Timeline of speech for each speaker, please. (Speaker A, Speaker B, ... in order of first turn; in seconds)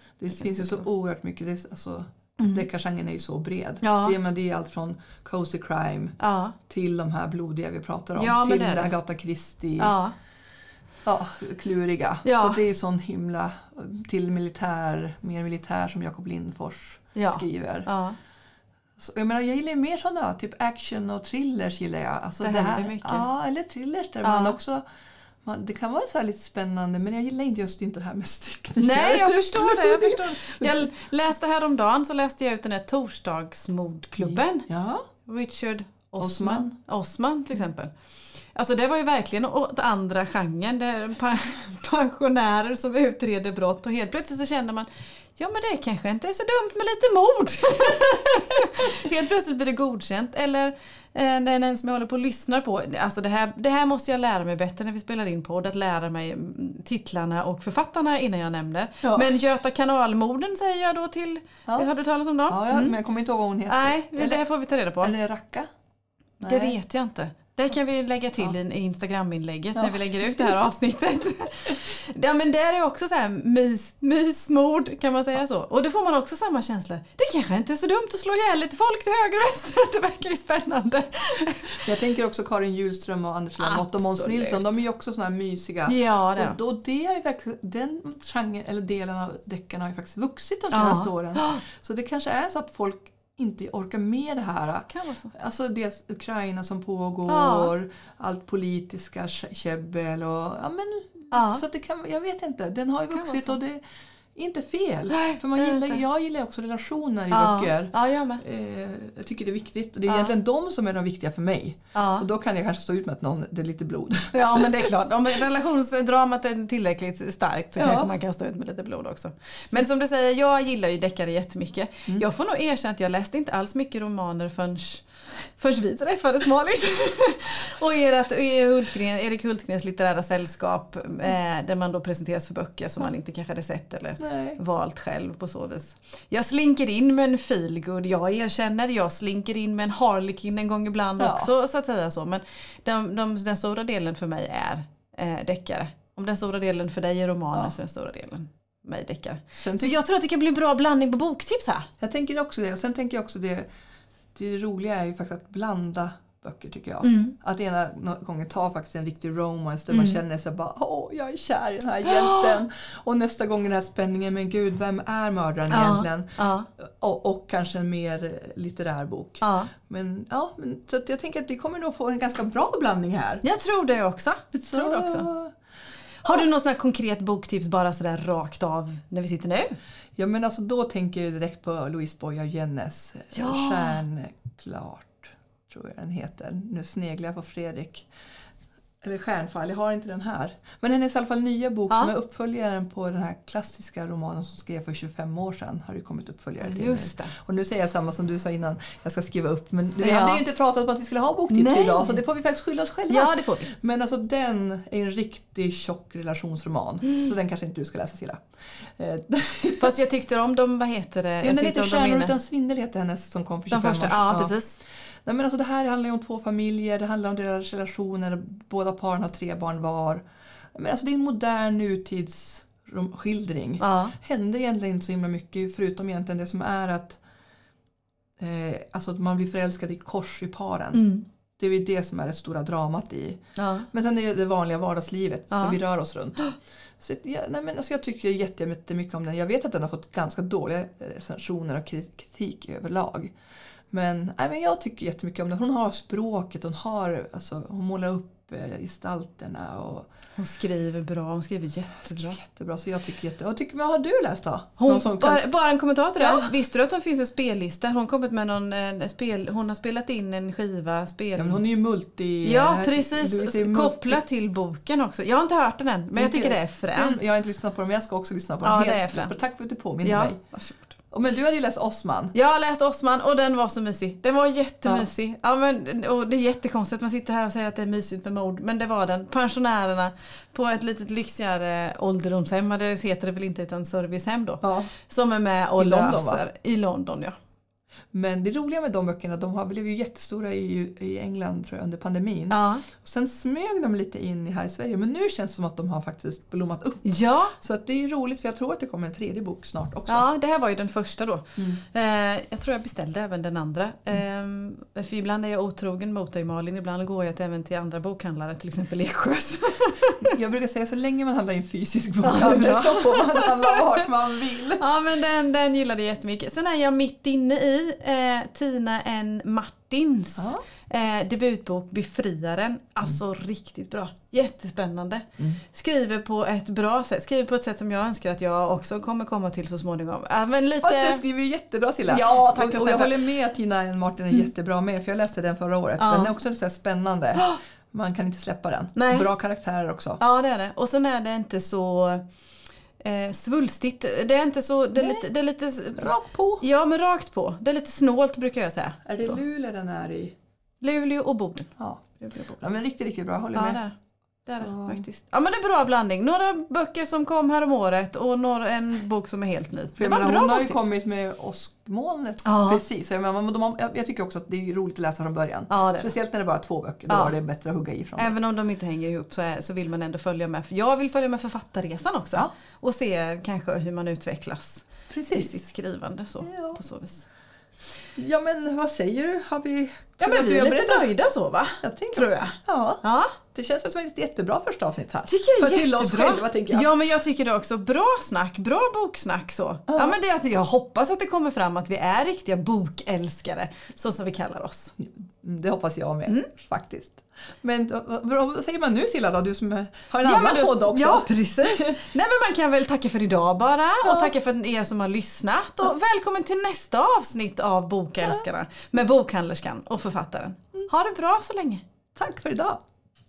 Speaker A: 0.2-6.2, 6.7-9.9, 11.0-17.9, 19.0-24.8, 25.4-30.9, 34.2-35.1, 36.2-36.7, 59.0-59.3, 62.5-64.4, 65.0-65.7, 66.4-66.8, 69.7-70.7, 81.8-103.8, 104.3-114.9, 117.8-118.1, 134.2-134.6, 141.2-141.5, 149.6-149.9, 152.0-153.7, 154.3-173.4, 174.5-175.5, 180.2-188.1, 189.0-209.9, 211.4-214.5, 215.2-227.2, 228.4-231.1, 231.6-243.3, 243.9-250.1, 252.0-255.4, 256.2-256.5, 261.4-264.2, 266.1-270.4, 271.1-272.3, 284.6-284.9, 285.8-286.4, 288.1-300.3, 310.2-314.8, 330.8-340.2, 344.9-345.2, 346.0-346.6, 349.1-350.3, 352.6-353.8, 354.6-355.0, 360.0-368.3, 375.1-375.6, 376.4-376.8, 378.1-381.1, 381.8-386.9, 389.9-390.2, 395.0-402.0, 404.0-404.3, 412.1-412.8
Speaker B: 0.3-0.8, 2.4-2.6, 3.8-4.2, 6.2-6.5, 8.1-8.9, 9.8-10.1, 12.2-12.6, 17.1-18.2, 22.4-23.3, 24.2-24.6, 28.8-34.7, 35.2-37.9, 38.5-63.0, 63.7-65.1, 66.4-81.9, 83.6-84.8, 85.9-86.6, 90.7-91.6, 94.9-95.3, 97.3-97.7, 101.3-101.6, 103.1-103.6, 105.1-106.0, 107.3-108.4, 110.1-110.3, 111.9-112.2, 114.3-125.0, 125.6-151.9, 157.0-157.3, 159.9-160.2, 162.1-162.6, 165.7-166.7, 169.4-169.7, 173.4-175.3, 176.2-179.8, 183.3-184.0, 196.6-197.3, 200.0-200.4, 201.5-202.2, 203.1-203.7, 209.8-212.3, 213.7-214.8, 223.8-224.1, 230.9-231.2, 233.6-233.9, 235.5-235.8, 250.4-252.4, 254.8-261.6, 262.4-267.2, 268.6-269.4, 270.0-271.0, 272.3-287.4, 292.5-292.9, 297.0-297.6, 300.1-310.4, 312.2-314.1, 314.8-331.2, 332.1-333.2, 336.0-336.3, 338.9-339.3, 340.2-342.2, 343.0-349.4, 350.8-352.6, 353.5-360.8, 362.4-362.8, 365.7-366.1, 367.1-367.3, 368.2-377.3, 380.2-383.4, 385.3-394.9, 400.2-411.8